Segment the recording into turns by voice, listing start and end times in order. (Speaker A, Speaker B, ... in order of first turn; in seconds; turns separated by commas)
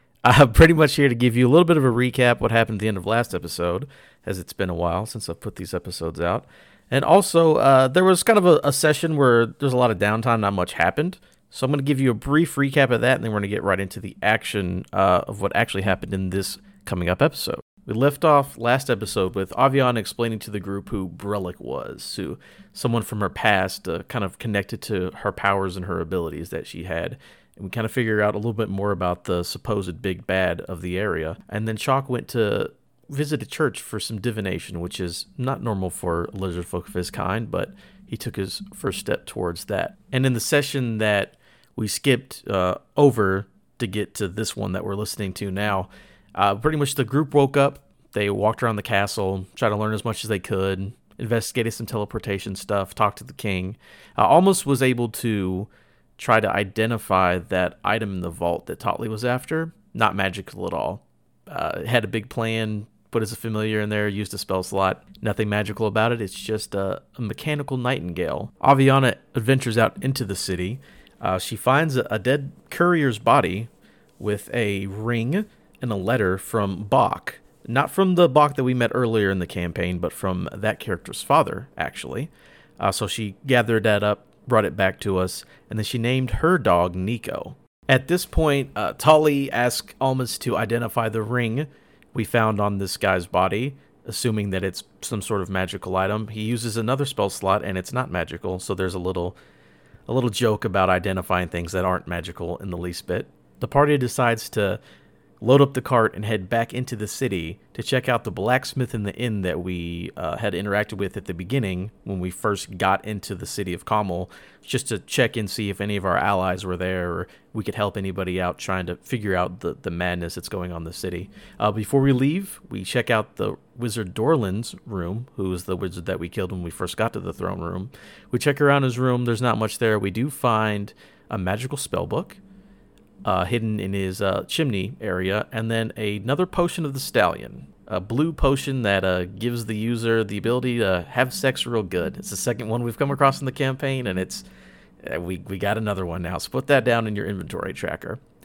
Speaker A: 0.2-99.4, Speaker A: 100.1-104.8, Speaker A: 105.4-132.4, Speaker A: 133.2-144.4, Speaker A: 145.0-148.2